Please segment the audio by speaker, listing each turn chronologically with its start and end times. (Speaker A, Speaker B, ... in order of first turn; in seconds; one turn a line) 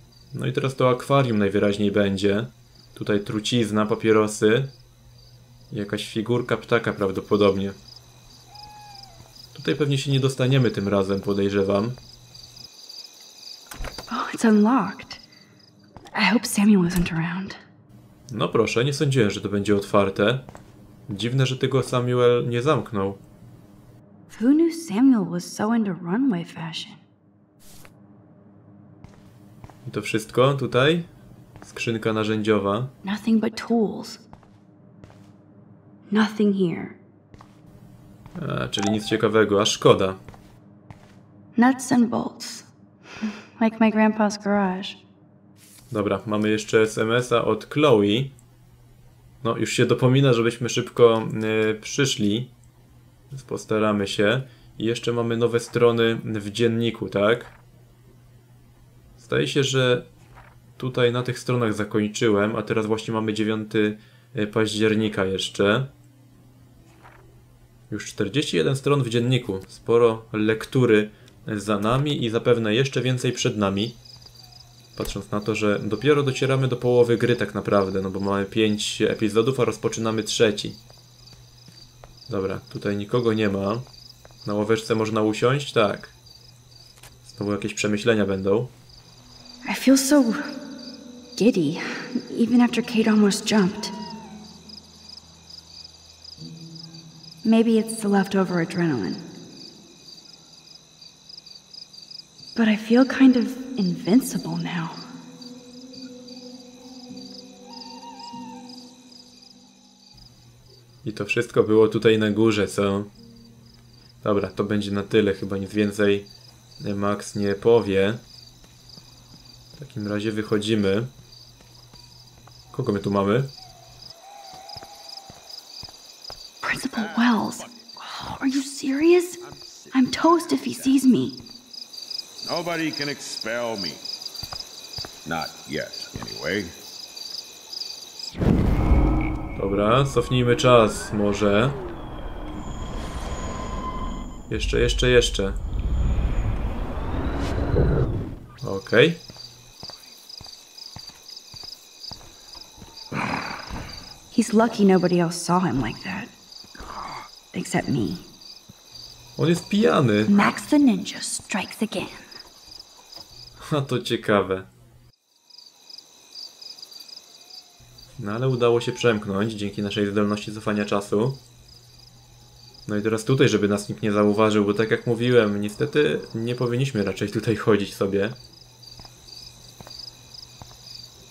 Speaker A: 0.3-4.7
Speaker A: 5.7-7.8
Speaker A: 9.5-12.0
Speaker B: 14.1-15.2
Speaker B: 16.1-17.6
Speaker A: 18.3-20.5
Speaker A: 21.1-23.2
Speaker B: 24.3-27.0
Speaker A: 29.8-31.1
Speaker A: 31.6-32.9
Speaker B: 33.0-34.2
Speaker B: 36.1-37.0
Speaker A: 38.3-40.2
Speaker B: 41.5-42.7
Speaker B: 43.6-45.0
Speaker A: 45.9-48.3
Speaker A: 49.4-52.5
Speaker A: 53.3-57.5
Speaker A: 59.2-60.0
Speaker A: 60.8-65.9
Speaker A: 67.9-74.0
Speaker A: 75.0-80.8
Speaker A: 82.3-83.9
Speaker A: 84.4-86.1
Speaker A: 87.2-88.7
Speaker B: 89.6-90.5
Speaker B: 91.3-93.9
Speaker B: 97.4-99.2
Speaker B: 102.5-105.0
Speaker A: 111.0-113.1
Speaker A: 114.2-118.2
Speaker A: 119.8-121.1
Speaker A: 122.7-123.5
Speaker B: 126.6-129.4
Speaker C: 126.9-127.8
Speaker C: 129.4-130.9
Speaker B: 129.9-131.4
Speaker C: 132.4-134.0
Speaker C: 135.2-136.7
Speaker A: 139.6-141.8
Speaker A: 144.5-145.6
Speaker A: 148.6-149.2
Speaker B: 154.3-156.3
Speaker B: 157.5-158.3
Speaker A: 159.4-160.5
Speaker B: 160.3-162.2
Speaker A: 163.6-164.7
Speaker A: 168.2-171.4
Speaker A: 172.8-178.4